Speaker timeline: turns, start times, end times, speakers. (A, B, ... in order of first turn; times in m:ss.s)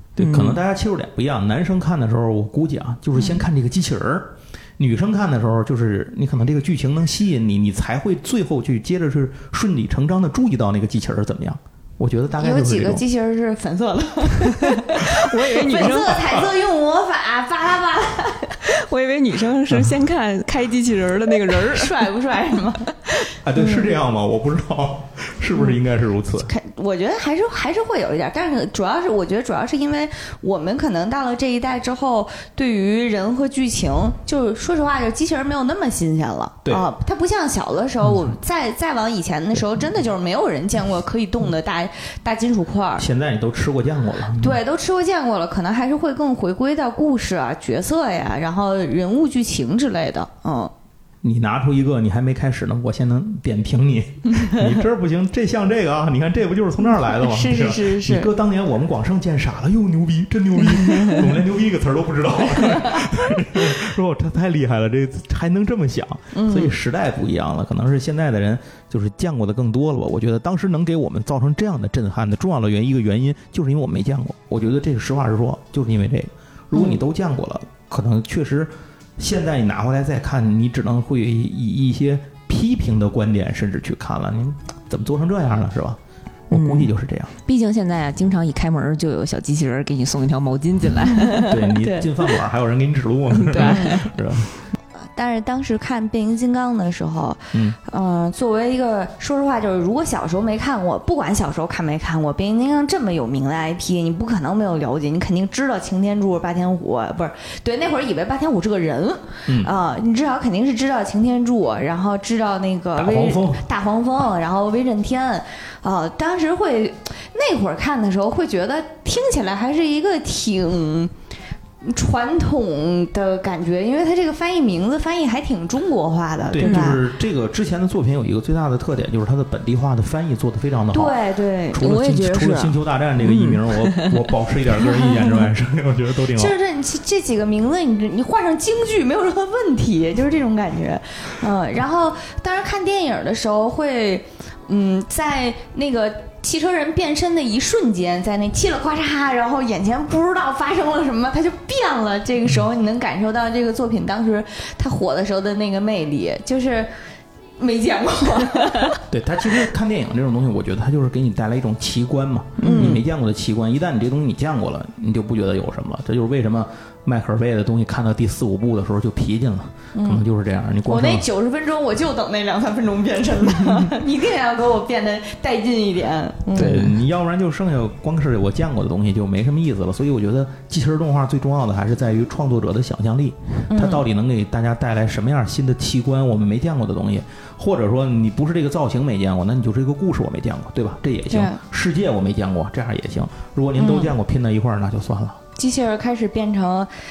0:00.2-0:13.0 A
0:00.2-0:00.6 B
0:03.2-0:03.4 C
0:12.4-0:18.7 C
0:14.6-0:16.4 B
0:18.6-0:22.0 B
0:21.5-0:22.9 C
0:23.4-0:26.5 A
0:23.6-0:23.9 C
0:26.4-0:43.1 C
0:43.0-0:44.6 A
0:44.4-0:50.7 C
0:51.2-1:26.0 A
0:57.0-0:58.3 C
1:02.6-1:03.1 C
1:06.3-1:06.8 C
1:16.7-1:17.0 C
1:26.5-1:27.3 A
1:26.5-1:26.9 B
1:27.4-1:31.5 B
1:31.1-1:32.1 C
1:31.4-1:34.5 A
1:33.4-1:34.1 B
1:33.6-1:34.1 C
1:35.0-2:01.1 C
1:49.5-1:49.7 A
1:53.0-1:53.6 A
2:01.8-2:07.0 C
2:06.5-2:11.2 A
2:06.6-2:07.0 B
2:10.9-2:11.9 C
2:11.7-2:16.6 A
2:11.8-2:14.3 B
2:16.3-2:36.9 C
2:37.6-2:39.0 C
2:39.1-2:51.3 A
2:42.6-2:43.0 B
2:42.6-2:43.1 C
2:50.0-2:50.2 C
2:50.9-2:56.9 C
2:56.5-3:15.4 A
2:56.6-2:57.0 B
3:03.7-3:04.0 C
3:11.3-3:11.6 C
3:13.8-3:14.2 C
3:15.6-3:16.9 C